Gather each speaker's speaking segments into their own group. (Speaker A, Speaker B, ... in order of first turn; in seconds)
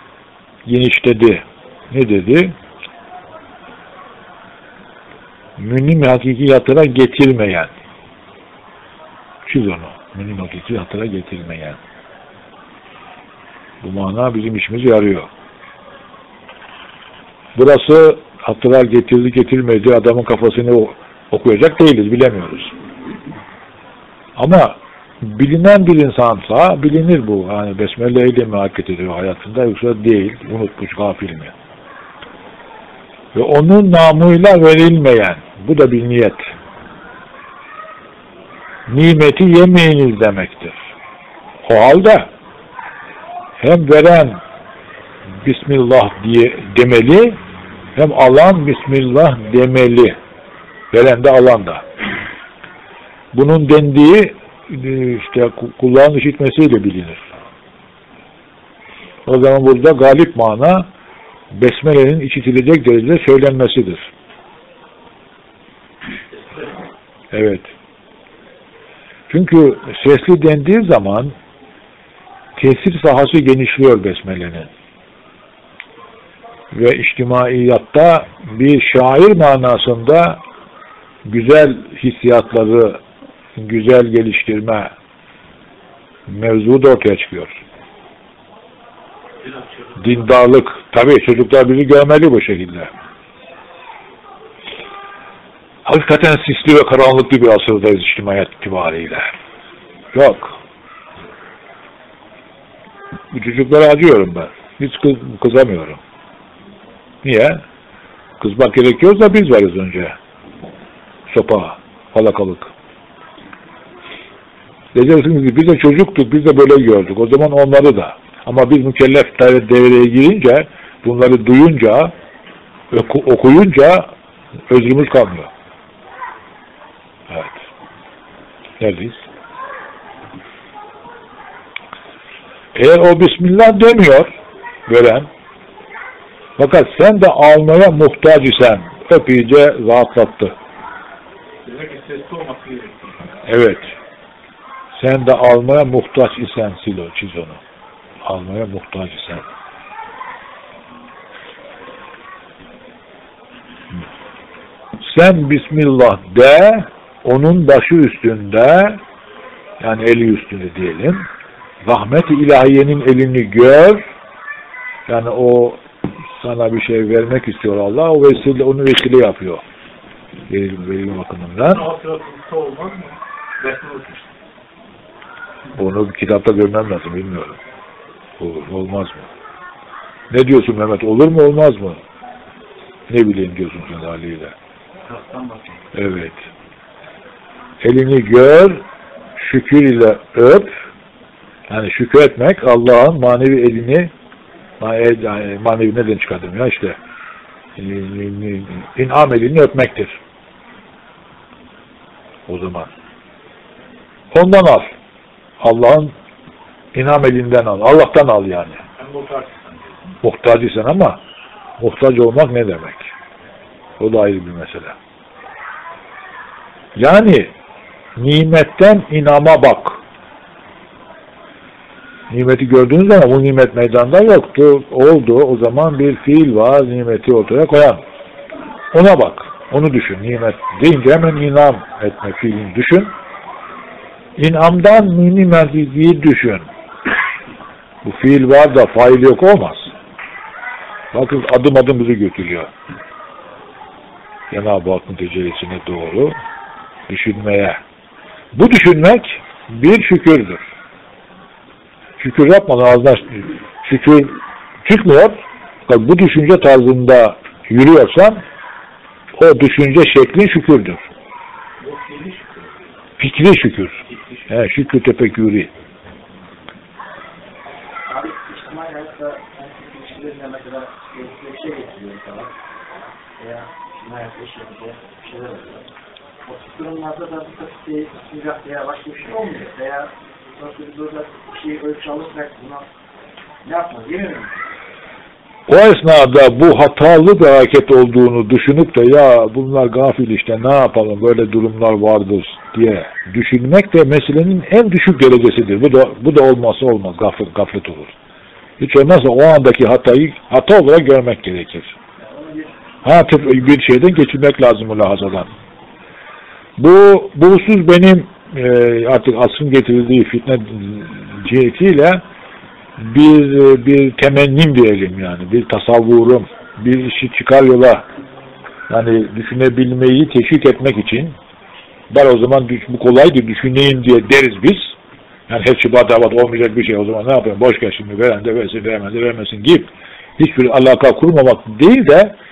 Speaker A: 0.7-2.5, 5.6-7.7, 9.5-11.8, 13.8-15.3, 17.6-22.7, 24.4-31.5, 33.3-36.4, 38.9-40.8, 41.7-42.3, 43.6-44.4, 45.5-47.4, 48.0-50.2, 50.9-51.8, 53.3-57.2, 59.3-60.9, 61.5-64.1, 67.3-67.7, 69.3-71.3, 72.6-74.7, 76.7-80.4, 81.3-83.0, 83.6-84.9, 86.3-87.6, 90.0-92.9, 95.9-99.3, 100.1-100.5, 103.3-106.0, 107.2-107.6, 108.4-110.2, 111.3-112.7, 114.9-122.1, 122.9-124.1, 124.7-125.5, 127.3-127.5, 128.8-129.2, 132.8-134.3, 134.9-135.3, 136.6-140.5, 143.5-143.9, 145.0-147.6, 148.2-149.4, 155.0-159.0, 159.8-161.3, 161.8-164.0, 165.1-165.8, 166.4-169.6, 170.5-171.9, 175.8-177.6, 178.4-179.3, 180.3-182.0, 183.1-184.5, 185.9-186.4, 187.8-188.8, 189.4-190.7, 191.7-194.1, 194.8-197.0, 197.8-200.2, 202.5-202.9, 204.3-204.9, 205.6-206.1, 206.9-208.8, 210.2-211.2, 211.8-213.1, 214.0-214.9, 217.0-217.5, 218.2-220.0, 222.3-228.0, 228.9-233.1, 234.4-236.7, 238.0-239.9, 241.1-242.7, 244.5-246.4, 247.1-247.8, 248.5-250.6, 252.2-258.4, 259.4-261.0, 263.2-264.0, 264.5-265.7, 285.7-298.1, 298.8-301.9, 303.0-305.5, 306.8-312.2, 313.0-318.1, 318.9-321.4, 322.1-324.9, 325.5-332.4
Speaker B: 89.4-90.0, 141.7-143.3, 171.7-174.3, 185.1-185.6, 209.0-209.9, 261.8-262.9, 264.1-264.5
Speaker C: 268.1-272.5, 273.4-275.9, 276.4-282.9, 283.6-284.5, 302.3-302.7